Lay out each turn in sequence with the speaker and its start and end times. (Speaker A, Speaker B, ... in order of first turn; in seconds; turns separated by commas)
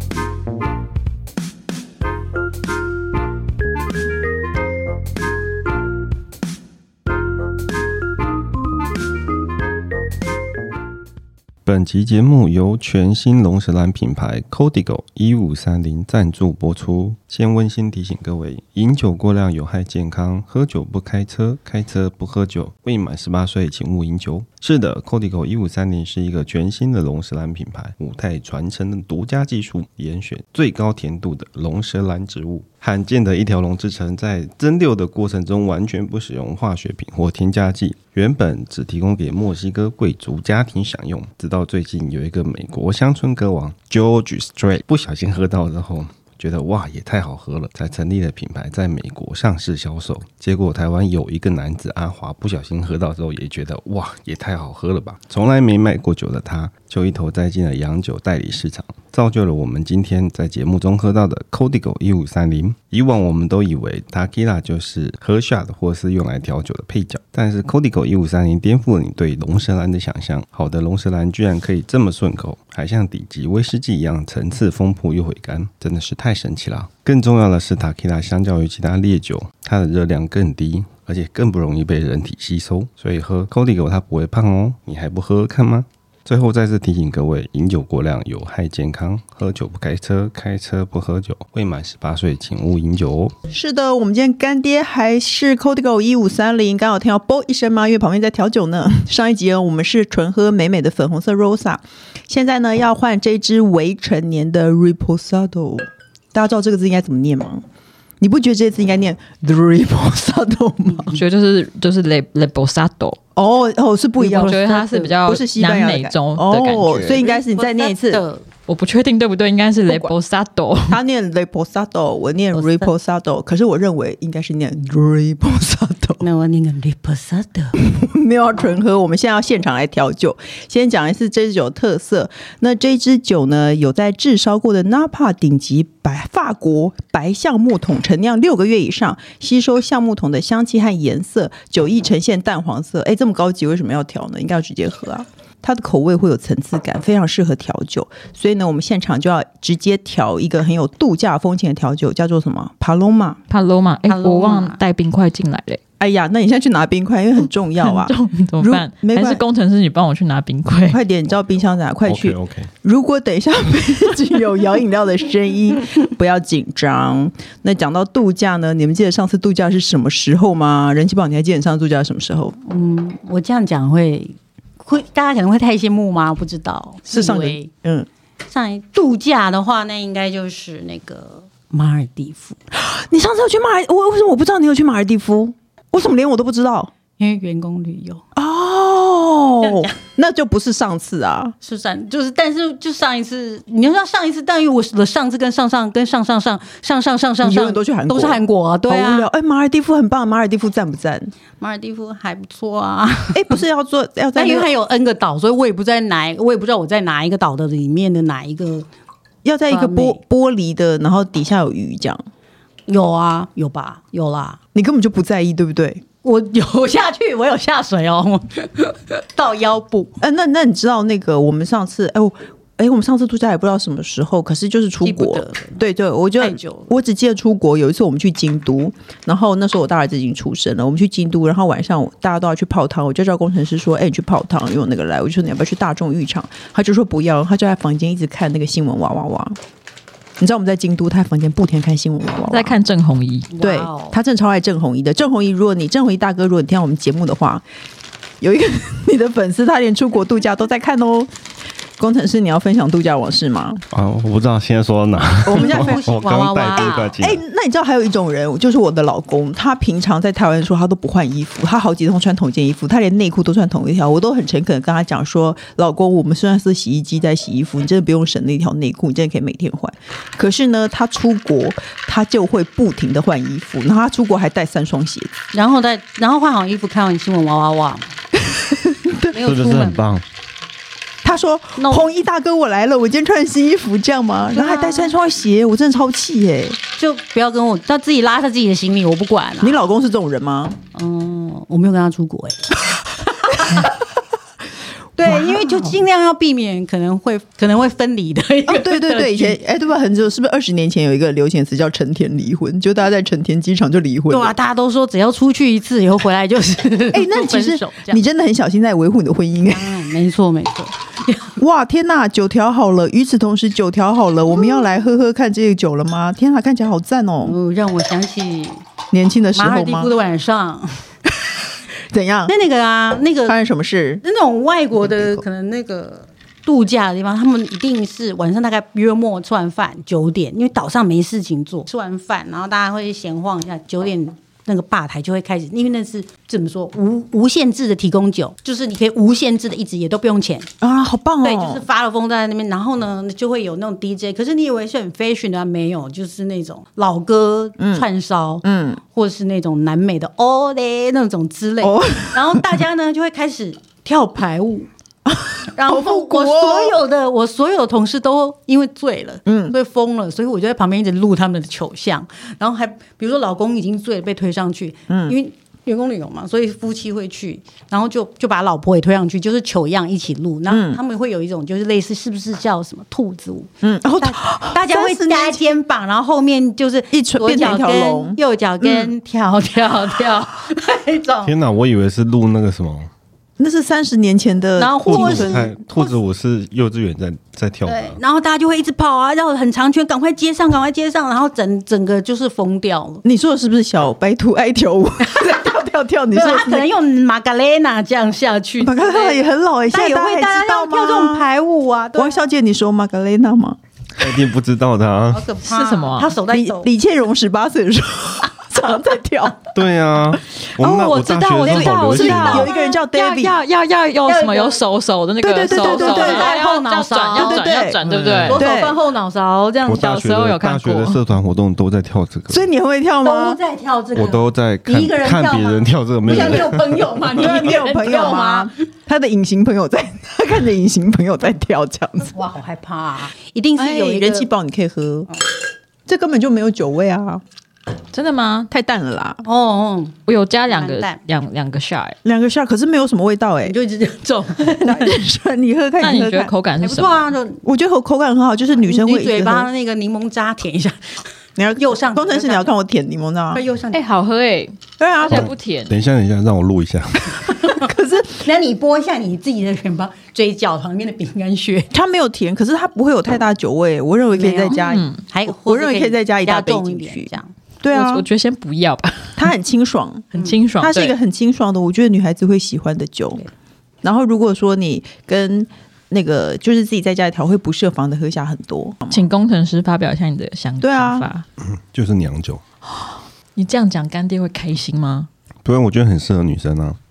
Speaker A: 11.6-93.3, Speaker B: 93.5-107.6, Speaker B: 108.2-111.2, Speaker C: 111.1-113.2, Speaker B: 113.3-118.2, Speaker C: 114.2-117.2, Speaker D: 114.2-115.2, Speaker D: 117.0-118.4, Speaker C: 118.7-121.0, Speaker B: 119.9-120.1, Speaker B: 120.9-126.2, Speaker D: 122.5-122.9, Speaker D: 126.2-127.8, Speaker B: 127.8-153.4, Speaker C: 153.5-155.8, Speaker D: 154.1-154.8, Speaker B: 156.0-159.4, Speaker C: 157.8-161.0, Speaker B: 160.9-172.6, Speaker A: 162.1-162.7, Speaker D: 172.6-177.7, Speaker B: 177.1-178.1, Speaker D: 178.5-182.6, Speaker B: 182.7-186.9, Speaker D: 187.2-188.2, Speaker B: 188.3-191.5, Speaker D: 189.6-189.9, Speaker D: 191.6-199.3, Speaker B: 197.4-201.3, Speaker D: 201.6-203.6, Speaker B: 203.3-204.7, Speaker D: 204.3-208.9, Speaker B: 209.4-212.2, Speaker D: 209.7-210.2, Speaker D: 212.9-214.6, Speaker B: 214.7-216.0, Speaker D: 216.2-220.1, Speaker B: 220.2-239.6, Speaker D: 225.0-225.8, Speaker D: 226.4-226.9, Speaker B: 240.4-242.8, Speaker C: 242.5-243.5, Speaker D: 243.5-244.2, Speaker B: 243.6-247.6, Speaker B: 248.4-251.3, Speaker B: 252.0-253.8, Speaker A: 253.9-257.4, Speaker B: 255.4-256.1, Speaker D: 255.5-257.1, Speaker B: 257.2-275.3, Speaker D: 275.5-278.1, Speaker B: 278.4-279.3, Speaker D: 279.3-280.0, Speaker A: 279.3-280.2, Speaker B: 281.2-286.8, Speaker D: 281.8-282.1, Speaker D: 284.5-285.1, Speaker D: 287.0-289.8, Speaker B: 289.6-290.8, Speaker D: 290.9-293.9, Speaker B: 293.5-293.9, Speaker D: 295.2-299.6, Speaker B: 295.2-296.0, Speaker B: 298.7-304.5, Speaker D: 304.3-308.2, Speaker B: 307.1-309.9, Speaker D: 309.7-311.6, Speaker B: 311.6-317.6, Speaker D: 317.4-318.8, Speaker B: 319.1-320.1, Speaker D: 319.5-321.1, Speaker B: 322.1-322.5, Speaker D: 322.5-323.6, Speaker B: 323.5-324.2, Speaker D: 324.2-340.7, Speaker B: 325.0-325.4, Speaker B: 340.8-341.8, Speaker D: 341.4-354.9, Speaker B: 347.8-348.1, Speaker B: 348.6-349.0, Speaker B: 351.8-352.8, Speaker B: 355.3-357.0, Speaker D: 355.7-381.5, Speaker B: 359.4-359.7, Speaker B: 365.1-365.4, Speaker B: 370.7-371.0, Speaker B: 373.8-375.7, Speaker B: 377.1-379.1, Speaker A: 381.4-383.1, Speaker B: 383.6-385.7, Speaker D: 384.8-386.2, Speaker A: 385.1-388.2, Speaker D: 387.9-393.2, Speaker B: 393.2-396.9, Speaker D: 395.2-395.7, Speaker D: 396.3-402.4, Speaker B: 398.8-401.4, Speaker B: 402.1-403.8, Speaker A: 404.1-405.5, Speaker D: 405.3-406.9, Speaker C: 405.6-406.3, Speaker B: 406.5-409.7, Speaker A: 409.7-412.7, Speaker C: 410.8-418.6, Speaker B: 411.8-413.6, Speaker D: 412.2-412.6, Speaker D: 414.2-414.8, Speaker B: 415.4-416.6, Speaker D: 415.7-417.8, Speaker B: 417.3-418.0, Speaker A: 418.0-418.6, Speaker D: 418.4-420.0, Speaker B: 418.5-418.9, Speaker A: 419.8-422.6, Speaker C: 419.9-421.2, Speaker B: 422.5-423.6, Speaker D: 423.2-428.7, Speaker A: 424.1-427.3, Speaker B: 426.3-426.6, Speaker B: 427.3-432.3, Speaker D: 432.3-434.5, Speaker B: 433.8-435.3, Speaker B: 436.1-437.4, Speaker C: 438.1-438.7, Speaker B: 438.7-439.4, Speaker D: 439.4-441.2, Speaker C: 440.2-442.2, Speaker B: 442.2-443.7, Speaker D: 443.6-445.1, Speaker B: 444.8-446.5, Speaker C: 446.0-447.3, Speaker D: 446.8-447.6, Speaker B: 447.6-449.7, Speaker D: 448.8-451.2, Speaker B: 451.6-453.6, Speaker D: 451.8-452.7, Speaker D: 453.5-454.0, Speaker C: 453.9-455.9, Speaker B: 455.0-455.5, Speaker A: 455.3-457.5, Speaker D: 457.4-461.9, Speaker B: 457.7-458.4, Speaker B: 461.9-467.3, Speaker D: 464.3-467.5, Speaker C: 464.8-465.2, Speaker B: 467.8-468.2, Speaker C: 467.9-469.4, Speaker B: 469.4-470.3, Speaker D: 470.3-470.6, Speaker C: 470.3-471.2, Speaker B: 470.8-473.4, Speaker B: 474.0-479.2, Speaker C: 479.1-481.4, Speaker B: 480.8-481.3, Speaker A: 481.6-482.6, Speaker C: 482.9-485.3, Speaker A: 485.6-487.0